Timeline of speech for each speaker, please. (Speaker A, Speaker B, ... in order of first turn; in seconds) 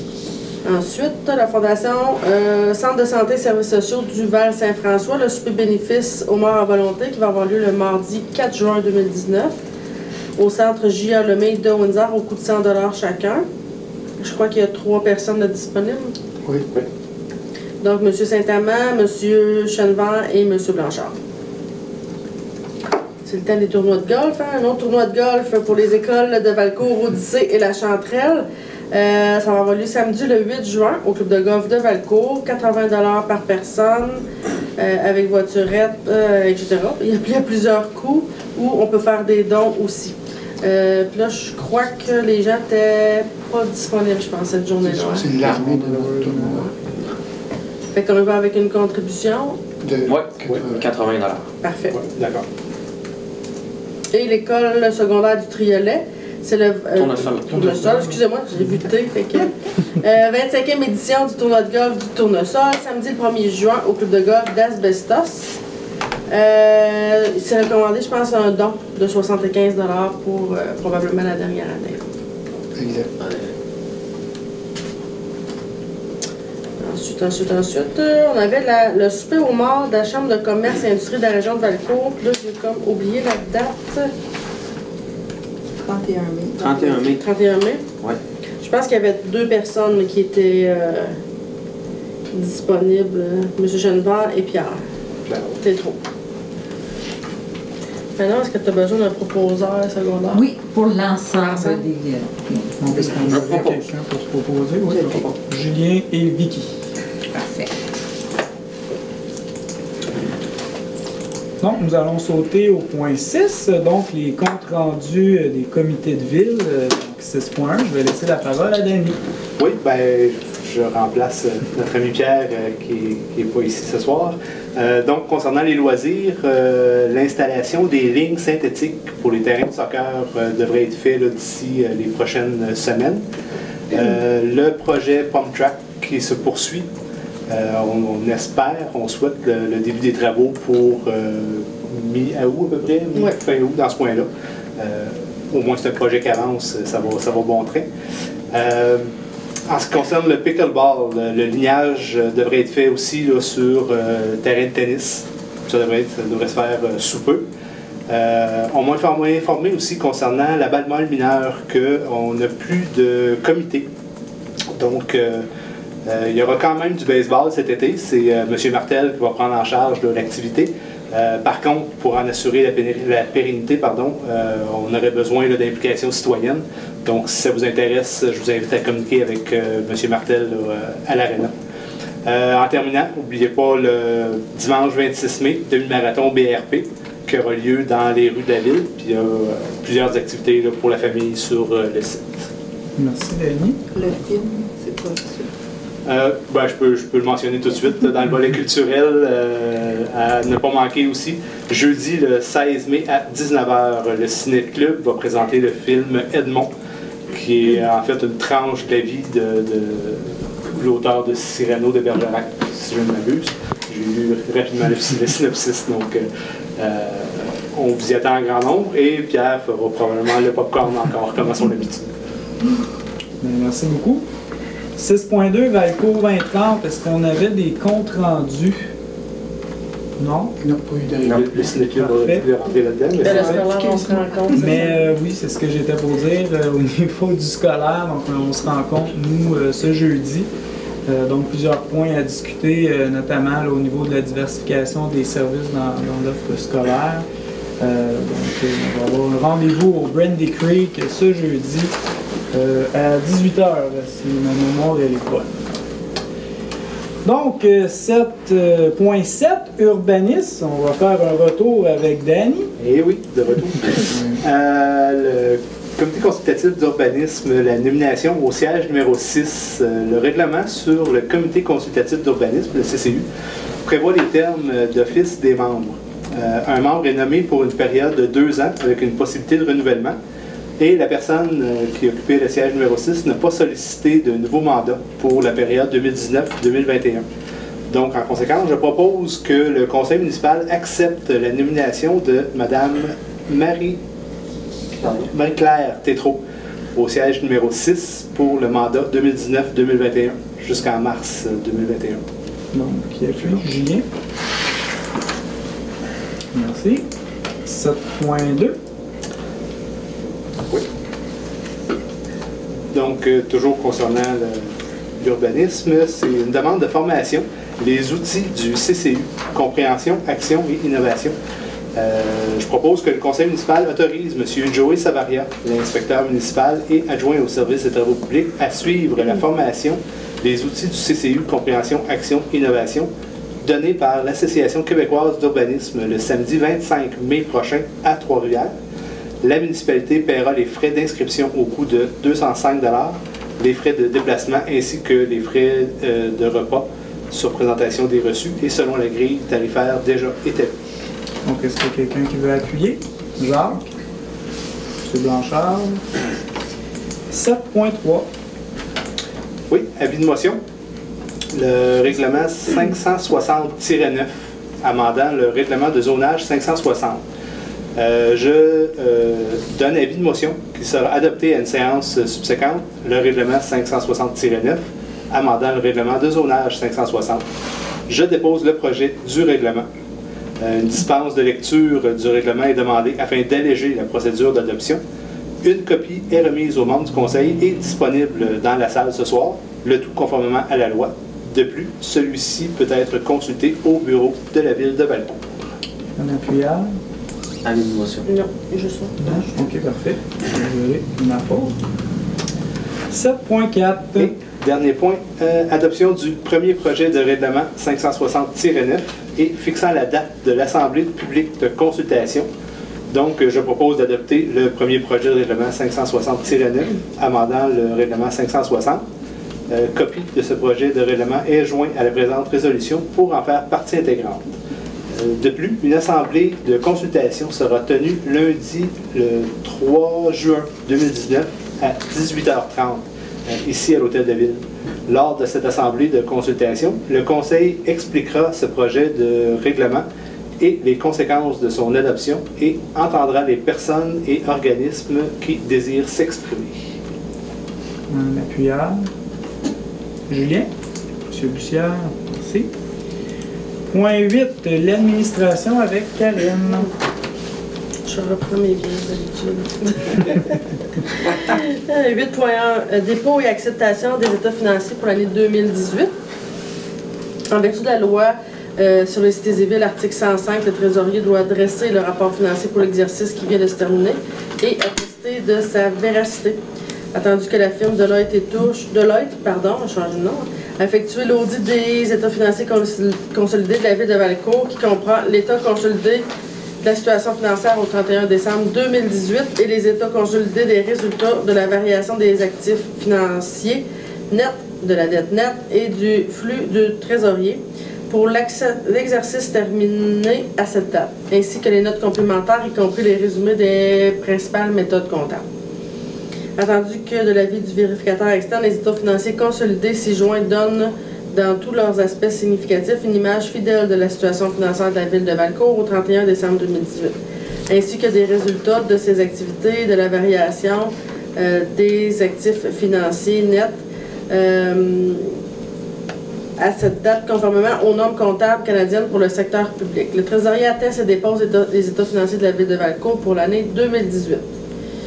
Speaker A: 0.6-9.6, 10.4-13.4, 14.2-16.1, 17.8-21.1, 23.2-34.2, 34.8-45.3, 47.9-49.6, 51.6-52.0, 54.1-65.6, 66.3-72.0, 73.2-73.5, 76.8-84.1, 87.0-87.8, 88.6-91.2, 92.3-94.8, 95.6-96.0, 98.2-100.5, 101.3-101.8, 233.2-234.9, 398.3-399.6, 458.1-460.6, 461.1-466.1, 467.5-476.6, 477.1-486.2, 486.8-505.4, 506.6-517.1, 517.7-523.7, 524.3-525.3, 526.6-534.4
Speaker B: 16.4-16.9, 44.9-46.7, 49.8-50.8, 72.8-73.1, 230.6-231.8, 264.1-264.4
Speaker C: 45.1-46.8, 102.8-106.7, 111.6-119.2, 193.0-193.8, 223.4-224.2, 225.0-228.9, 230.2-230.5, 231.9-232.4, 234.5-240.5, 241.1-247.3, 247.8-251.9, 252.5-255.8, 257.2-262.7, 302.7-304.1, 306.5-307.1, 307.6-308.8, 351.4-353.9, 355.0-356.0, 357.3-358.3, 396.2-396.9, 399.2-401.8, 403.1-404.3, 448.1-449.1, 450.3-450.7, 451.3-452.7, 453.9-456.9
Speaker D: 50.1-51.5, 57.0-58.0, 86.6-87.2, 103.2-103.8, 231.2-231.5, 397.6-398.3
Speaker E: 51.9-52.5, 95.3-95.6, 119.6-133.2, 133.9-136.9, 137.5-147.9, 148.5-149.1, 149.7-157.4, 158.1-163.9, 164.7-165.5, 166.1-181.5, 182.2-192.5, 196.1-206.7, 207.3-222.1, 231.3-233.7, 262.8-273.3, 273.9-280.2, 280.8-287.2, 287.9-294.0, 295.0-296.4, 296.9-302.2, 312.9-321.4, 321.9-333.1, 333.6-338.7, 339.4-350.7, 359.7-360.6, 361.5-367.2, 367.9-377.4, 378.1-379.9, 380.6-385.0, 385.6-395.5, 404.2-412.5, 413.1-419.0, 419.7-424.4, 425.1-440.1, 440.6-446.8
Speaker F: 85.8-87.0, 104.9-105.4, 193.9-195.5, 233.2-234.9
Speaker G: 100.3-103.8, 107.3-107.7